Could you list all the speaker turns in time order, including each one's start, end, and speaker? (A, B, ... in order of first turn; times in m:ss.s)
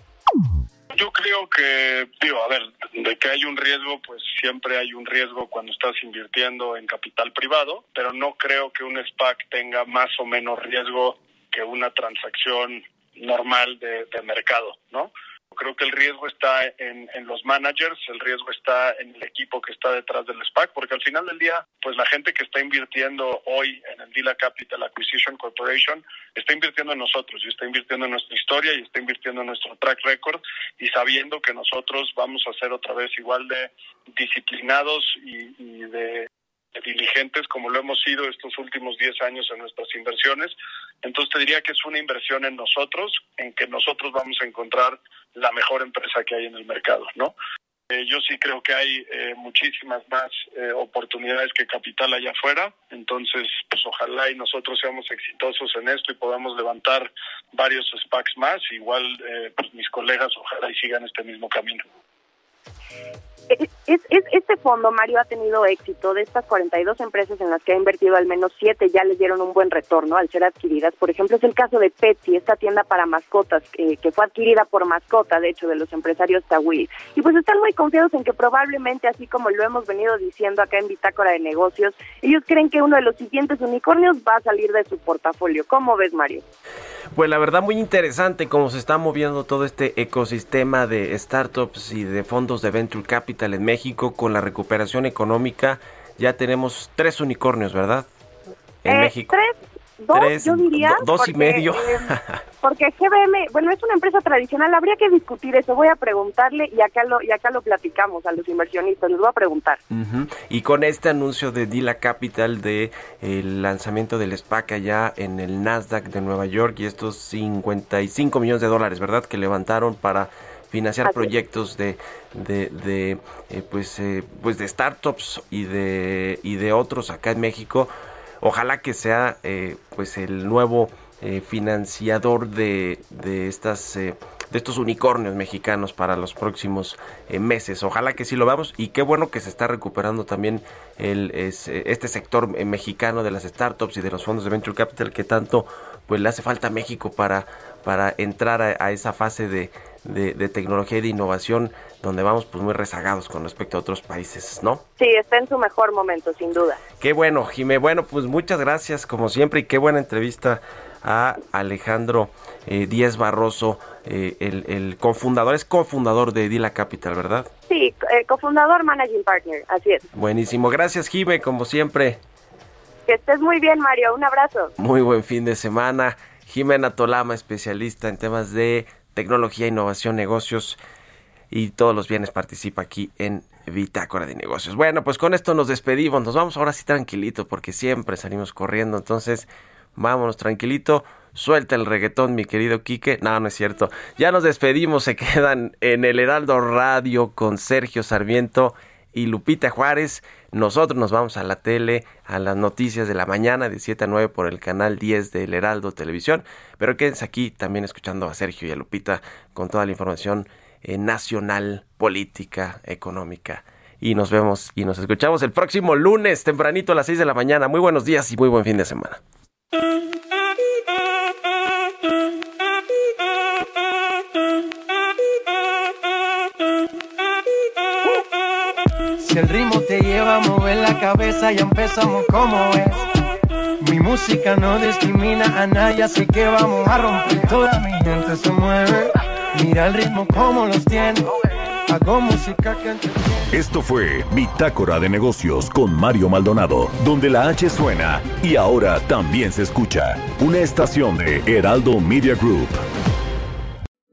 0:00.9-0:47.3 A
0:47.9-1:01.8 A
1:03.5-1:26.4 B
1:27.1-1:38.1 C
1:38.8-1:39.3 C
1:38.9-1:42.1 B
1:40.1-1:42.4 C
1:42.6-1:49.8 B
1:49.9-2:07.9 C
2:08.4-2:34.8 C
2:35.0-2:36.8 B
2:37.0-2:47.5 C
2:47.7-2:50.0 B
2:50.1-2:52.2 C
2:53.1-2:54.7 B
2:54.8-3:00.8 C
3:01.5-3:39.2 C
3:49.2-3:53.0 D
3:53.8-4:03.5 D
4:03.5-4:12.8 E